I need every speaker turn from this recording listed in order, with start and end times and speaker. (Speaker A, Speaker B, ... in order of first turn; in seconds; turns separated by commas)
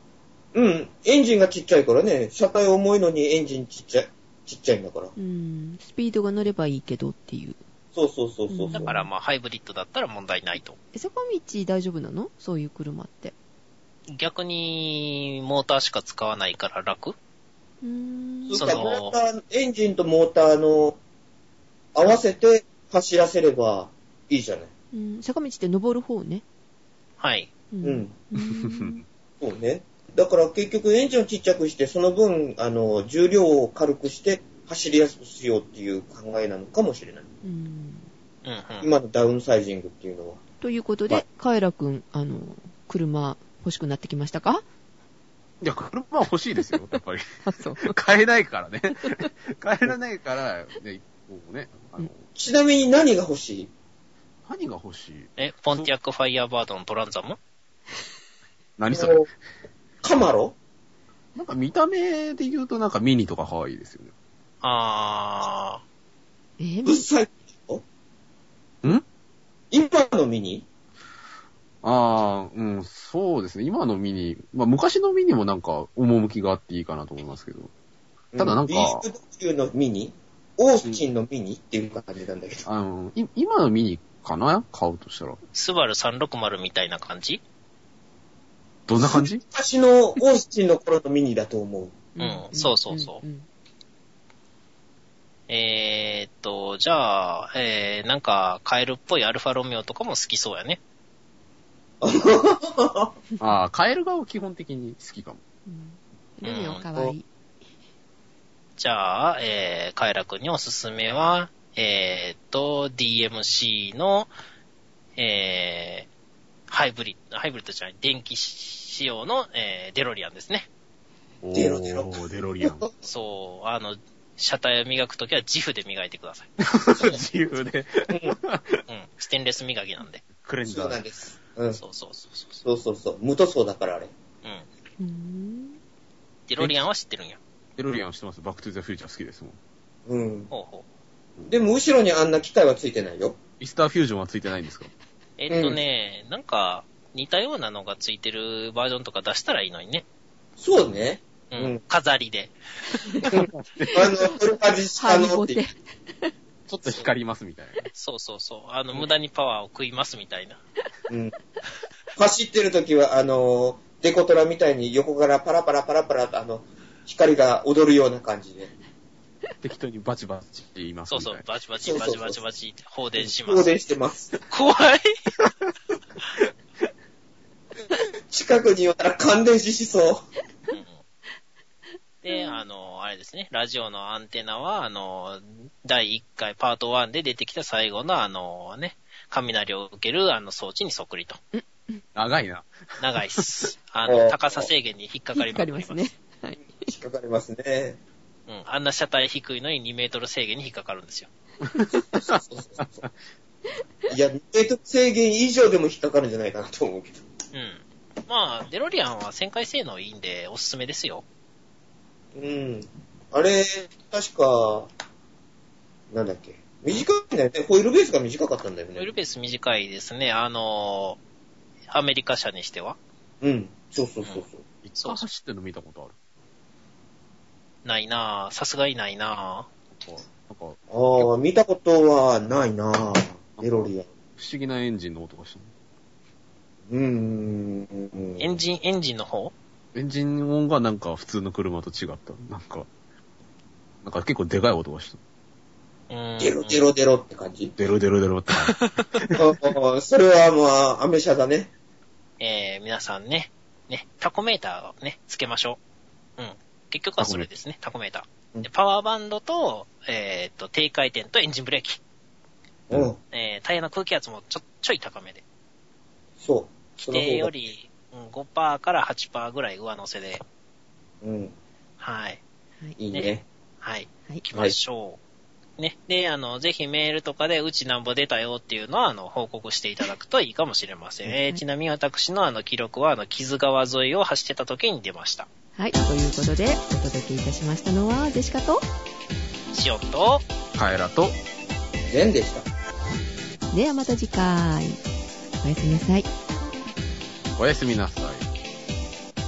Speaker A: 0.5-5.1, Speaker B: 5.2-7.6, Speaker A: 7.9-8.9, Speaker B: 8.5-9.1, Speaker C: 8.7-10.8, Speaker B: 10.9-13.3, Speaker C: 14.1-17.1, Speaker B: 17.8-18.8, Speaker A: 18.4-21.0, Speaker C: 18.6-19.1, Speaker A: 21.9-24.7, Speaker B: 24.9-26.4, Speaker C: 27.2-27.5, Speaker B: 27.7-29.0, Speaker A: 27.8-28.1, Speaker D: 28.6-29.0, Speaker A: 29.4-37.2, Speaker B: 37.4-38.1, Speaker C: 38.4-38.9, Speaker A: 38.8-40.4, Speaker B: 40.6-44.6, Speaker D: 45.6-52.2, Speaker B: 47.4-48.0, Speaker A: 52.4-53.7, Speaker D: 54.5-55.9, Speaker C: 55.4-57.4, Speaker D: 58.8-59.2, Speaker A: 58.9-59.3, Speaker A: 60.0-60.5, Speaker D: 61.3-64.1, Speaker C: 64.6-65.8, Speaker B: 66.6-67.1, Speaker A: 66.8-67.8, Speaker A: 69.7-70.6, Speaker D: 71.8-77.7, Speaker A: 78.3-82.6, Speaker D: 78.4-79.0, Speaker D: 82.6-85.4, Speaker C: 85.5-87.4, Speaker D: 88.9-89.4, Speaker A: 89.0-92.0, Speaker B: 92.2-93.5, Speaker C: 92.2-93.2, Speaker C: 95.5-100.8, Speaker A: 102.0-103.1, Speaker D: 103.4-105.4, Speaker B: 105.7-107.3, Speaker C: 106.4-106.8, Speaker C: 108.8-114.3, Speaker C: 115.2-116.1, Speaker C: 116.7-120.7, Speaker D: 121.4-122.8, Speaker A: 121.5-122.9, Speaker C: 123.0-126.5, Speaker D: 126.6-128.8, Speaker A: 128.1-128.4, Speaker C: 128.9-130.2, Speaker D: 130.2-131.0, Speaker A: 130.6-131.8, Speaker C: 131.7-132.6, Speaker A: 132.6-134.1, Speaker B: 135.0-135.8, Speaker C: 136.5-137.4, Speaker D: 136.6-136.9, Speaker D: 137.8-139.6, Speaker A: 140.1-140.5, Speaker C: 140.5-140.8, Speaker A: 141.5-143.4, Speaker D: 143.6-144.9, Speaker C: 145.4-150.0, Speaker A: 145.5-145.8, Speaker A: 150.6-151.8, Speaker C: 151.5-152.5, Speaker D: 153.2-154.1, Speaker A: 153.3-155.6, Speaker B: 155.0-156.3, Speaker D: 156.7-157.9, Speaker C: 156.8-157.1, Speaker C: 157.9-160.6, Speaker A: 161.1-161.3, Speaker A: 162.2-168.7, Speaker D: 169.6-171.4, Speaker C: 171.1-173.8, Speaker A: 171.8-172.4, Speaker A: 173.2-174.3, Speaker C: 174.5-175.1, Speaker A: 177.9-180.3, Speaker C: 180.7-181.0, Speaker C: 182.2-191.4, Speaker B: 182.3-182.6, Speaker B: 191.5-192.0, Speaker D: 192.1-192.7, Speaker C: 193.0-196.1, Speaker A: 194.0-194.7, Speaker B: 195.3-196.9, Speaker A: 196.6-198.0, Speaker C: 198.5-201.3, Speaker D: 201.6-203.1, Speaker A: 201.9-203.0, Speaker A: 204.1-207.2, Speaker C: 207.5-211.2, Speaker A: 212.3-214.9, Speaker A: 216.1-219.1, Speaker C: 218.9-221.2, Speaker C: 221.9-223.0, Speaker A: 223.4-224.6, Speaker D: 224.8-226.1, Speaker C: 227.8-229.7, Speaker D: 229.9-231.2, Speaker A: 230.9-234.1, Speaker D: 233.6-235.7, Speaker A: 236.9-238.6, Speaker C: 238.4-239.5, Speaker D: 239.9-242.9, Speaker D: 244.0-245.2, Speaker C: 246.1-246.8, Speaker A: 246.4-247.7, Speaker D: 247.8-249.4, Speaker C: 248.7-249.1, Speaker A: 249.4-251.7, Speaker C: 252.4-255.8, Speaker C: 256.4-262.0, Speaker D: 257.2-257.5, Speaker A: 262.9-263.2, Speaker C: 263.3-265.4, Speaker A: 266.4-267.5, Speaker C: 267.0-270.4, Speaker A: 271.2-271.5, Speaker C: 272.0-272.4, Speaker A: 273.0-273.4, Speaker C: 273.8-275.2, Speaker C: 275.8-285.5, Speaker B: 285.8-288.8, Speaker C: 289.7-290.4, Speaker D: 290.7-291.4, Speaker A: 292.1-292.7, Speaker B: 293.7-295.0, Speaker B: 295.6-296.3, Speaker D: 297.6-298.5